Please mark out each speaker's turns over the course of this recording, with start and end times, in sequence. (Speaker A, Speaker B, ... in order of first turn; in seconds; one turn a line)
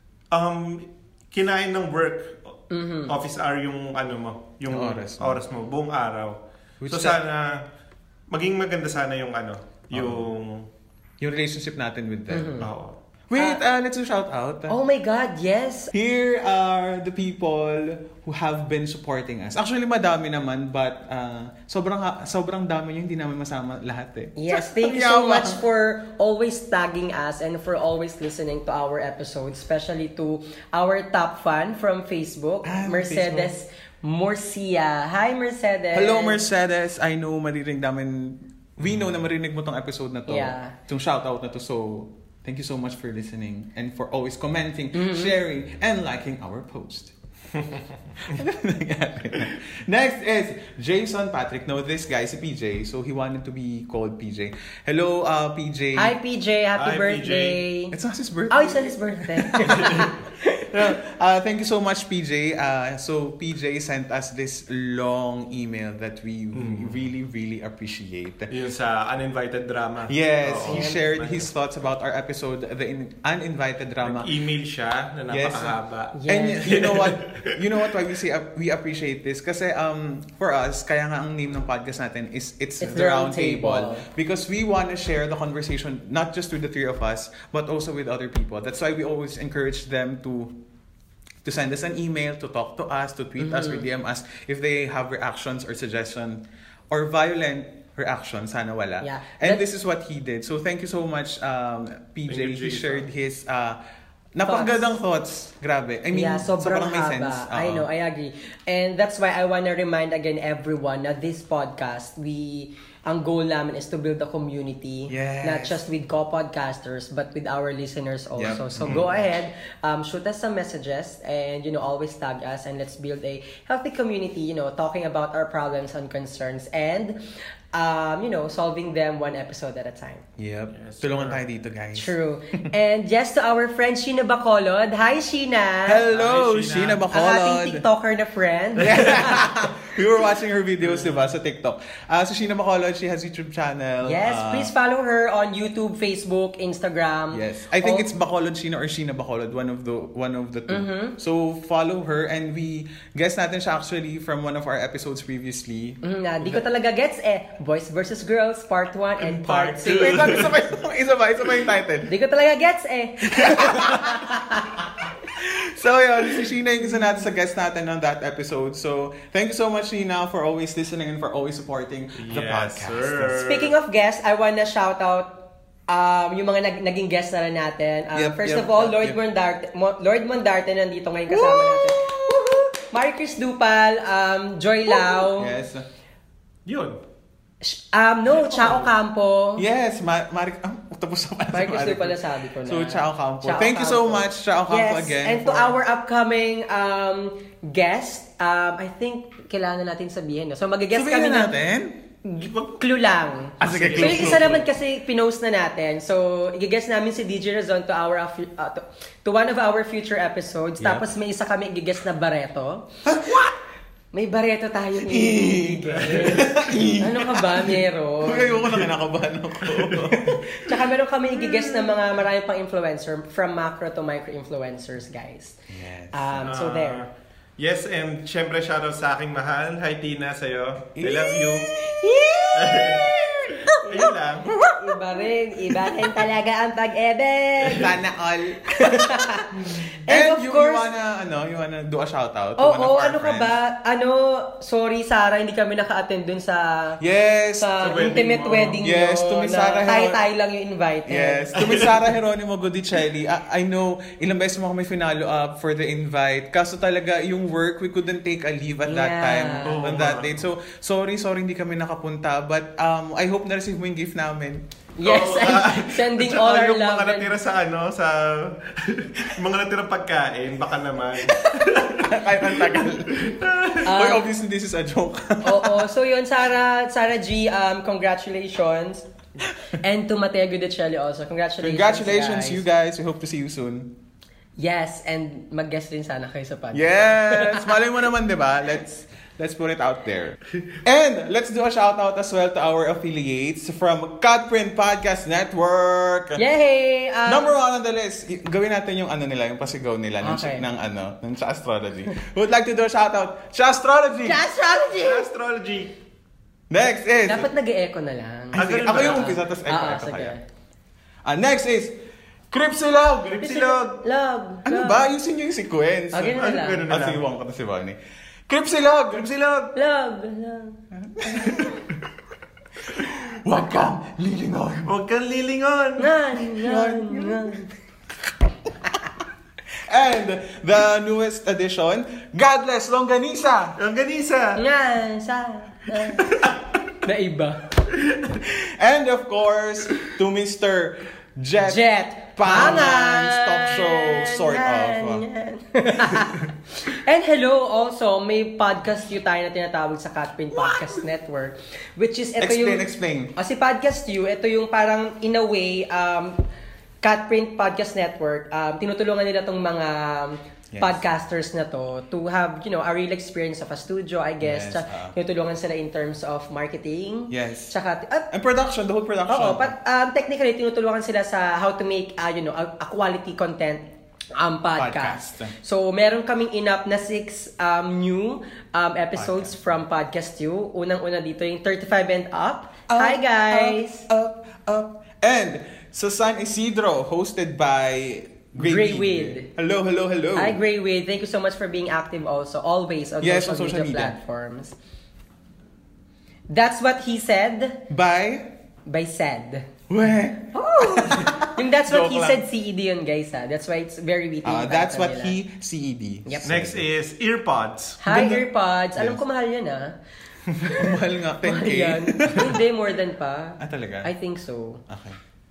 Speaker A: 0.3-2.5
Speaker B: 2.7-3.1
Speaker A: 3.1-7.6
Speaker C: 4.7-5.4
Speaker C: 6.8-7.2
Speaker A: 8.3-10.7
Speaker C: 9.9-10.3
Speaker C: 11.2-12.6
Speaker B: 12.3-12.7
Speaker A: 12.6-12.9
Speaker C: 13.3-14.7
Speaker B: 14.7-15.9
Speaker C: 15.9-25.6
Speaker B: 24.4-36.4
Speaker C: 32.6-33.5
Speaker C: 35.9-47.1
Speaker B: 40.3-40.7
Speaker B: 44.9-45.4
Speaker C: 48.2-56.1
Speaker B: 56.0-57.9
Speaker A: 56.8-57.6
Speaker C: 57.9-60.1
Speaker B: 58.5-60.7
Speaker C: 60.7-68.5
Speaker A: 66.5-67.0
Speaker A: 68.5-71.5
Speaker C: 70.1-74.3
Speaker B: 70.7-71.0
Speaker A: 74.0-77.6
Speaker C: 75.3-75.8
Speaker B: 76.1-76.8
Speaker C: 76.3-90.5
Speaker B: 82.8-84.1
Speaker C: 91.4-103.8
Speaker B: 93.4-93.9
Speaker B: 99.0-99.6
Speaker A: 102.3-103.0
Speaker C: 104.3-107.8
Speaker B: 104.4-104.7
Speaker B: 106.1-127.2
Speaker C: 115.1-115.8
Speaker C: 118.3-119.1
Speaker B: 127.7-130.2
Speaker C: 130.4-132.6
Speaker A: 130.7-131.4
Speaker B: 131.9-136.0
Speaker C: 135.8-137.8
Speaker A: 136.1-137.1
Speaker B: 137.1-139.4
Speaker C: 138.8-144.7
Speaker A: 140.8-141.3
Speaker B: 144.0-148.1
Speaker C: 147.3-156.6
Speaker B: 150.7-151.2
Speaker B: 156.0-160.5
Speaker A: 159.2-160.5
Speaker C: 160.0-162.1
Speaker B: 162.1-164.8
Speaker C: 163.3-164.3
Speaker C: 165.3-173.4
Speaker A: 172.2-173.7
Speaker B: 173.3-185.5
Speaker C: 178.1-179.2
Speaker C: 181.3-182.6
Speaker C: 184.9-185.9
Speaker A: 186.7-187.0
Speaker B: 187.6-189.6
Speaker C: 188.4-188.8
Speaker C: 189.6-195.8
Speaker B: 191.5-201.5
Speaker C: 200.9-202.0
Speaker B: 202.2-213.0
Speaker C: 203.6-204.6
Speaker A: 203.6-204.6
Speaker C: 210.8-211.1
Speaker C: 213.0-213.6
Speaker B: 214.1-218.8
Speaker C: 215.1-220.5
Speaker A: 219.7-220.4
Speaker B: 220.6-225.6
Speaker C: 225.7-226.5
Speaker B: 226.1-227.0
Speaker A: 226.5-227.1
Speaker A: 227.6-231.7
Speaker C: 230.9-231.6
Speaker B: 231.7-237.9
Speaker A: 232.5-234.5
Speaker C: 234.5-235.2
Speaker C: 235.7-236.0
Speaker C: 237.8-243.5
Speaker B: 238.7-240.9
Speaker B: 242.6-247.0
Speaker C: 247.0-248.0
Speaker B: 247.6-251.9
Speaker A: 247.8-248.8
Speaker C: 248.8-250.2
Speaker C: 251.1-264.6
Speaker A: 251.6-251.9
Speaker B: 258.9-259.8
Speaker A: 259.6-260.4
Speaker B: 265.0-267.3
Speaker A: 265.0-273.8
Speaker C: 271.9-275.9
Speaker B: 273.8-274.3
Speaker B: 275.4-279.1
Speaker B: 279.7-282.6
Speaker C: 281.6-283.9
Speaker B: 284.6-287.8
Speaker C: 286.7-296.4
Speaker B: 296.4-297.5
Speaker C: 297.2-304.4
Speaker B: 300.2-300.6
Speaker B: 304.2-305.2
Speaker A: 304.9-305.9
Speaker C: 306.7-307.5
Speaker B: 307.2-310.4
Speaker C: 308.5-310.3
Speaker A: 308.6-309.4
Speaker C: 311.2-311.9
Speaker C: 312.5-313.6
Speaker A: 313.4-314.0
Speaker B: 313.4-315.1
Speaker C: 314.6-318.0
Speaker B: 316.1-316.9
Speaker A: 316.3-317.2
Speaker C: 318.5-319.7
Speaker B: 319.7-320.8
Speaker C: 320.9-321.8
Speaker C: 322.9-324.9
Speaker A: 324.9-326.1
Speaker B: 326.0-327.7
Speaker C: 326.6-327.6
Speaker C: 329.8-333.8
Speaker A: 333.8-334.6
Speaker B: 334.6-337.6
Speaker A: 336.2-336.6
Speaker C: 338.4-341.8
Speaker B: 341.6-356.4
Speaker C: 342.4-345.2
Speaker C: 350.5-351.0
Speaker C: 352.4-353.3
Speaker B: 357.0-368.3
Speaker C: 360.7-361.0
Speaker C: 364.4-365.1
Speaker C: 367.3-367.7
Speaker C: 368.3-369.7
Speaker B: 369.3-384.1
Speaker C: 374.8-375.5
Speaker C: 379.1-379.7
Speaker C: 382.9-390.6
Speaker B: 388.6-389.5
Speaker B: 390.4-394.8
Speaker C: 393.2-394.1
Speaker B: 396.5-397.9
Speaker C: 397.9-398.5
Speaker B: 398.9-399.7
Speaker C: 399.9-402.4
Speaker B: 400.5-405.4
Speaker C: 404.4-406.9
Speaker A: 406.4-408.0
Speaker B: 408.0-410.0
Speaker C: 408.1-409.2
Speaker B: 410.6-414.8
Speaker C: 410.6-412.6
Speaker C: 413.6-414.1
Speaker C: 414.9-415.2